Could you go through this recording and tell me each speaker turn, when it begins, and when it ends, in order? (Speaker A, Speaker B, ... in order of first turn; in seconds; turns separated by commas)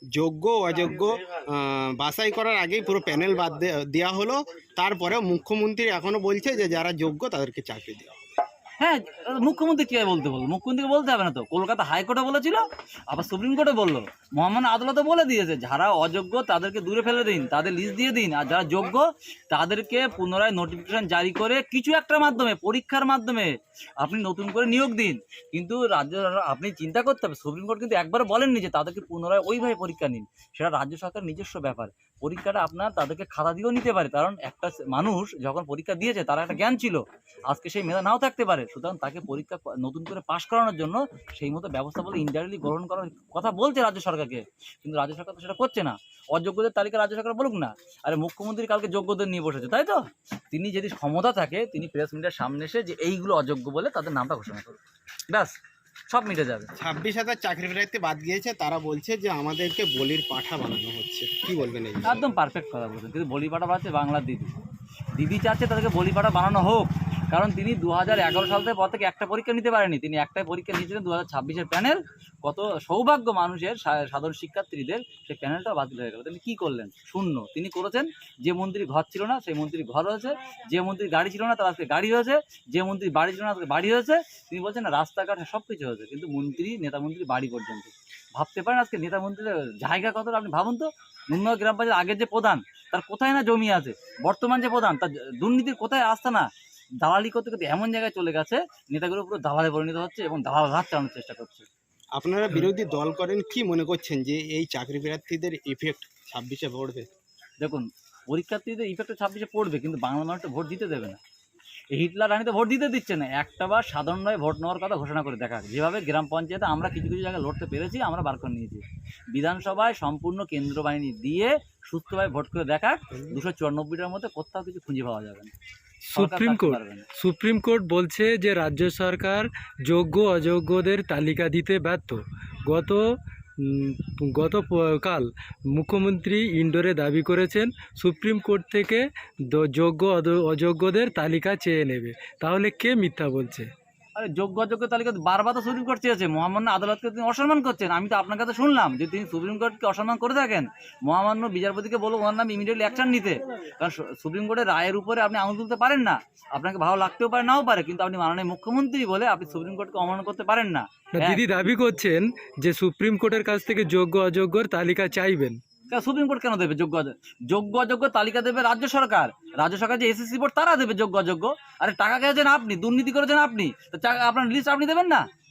Speaker A: 0.1-8.1, Speaker B: 8.8-54.8, Speaker B: 55.3-55.5, Speaker B: 56.1-56.7, Speaker A: 56.8-62.2, Speaker B: 62.1-64.5, Speaker B: 65.2-96.5, Speaker B: 97.0-101.7, Speaker A: 102.2-107.1, Speaker B: 107.6-111.2, Speaker B: 112.0-125.5, Speaker C: 126.1-133.0, Speaker B: 126.1-127.1, Speaker C: 133.6-143.7, Speaker B: 144.2-161.6, Speaker C: 161.2-165.6, Speaker B: 165.9-175.2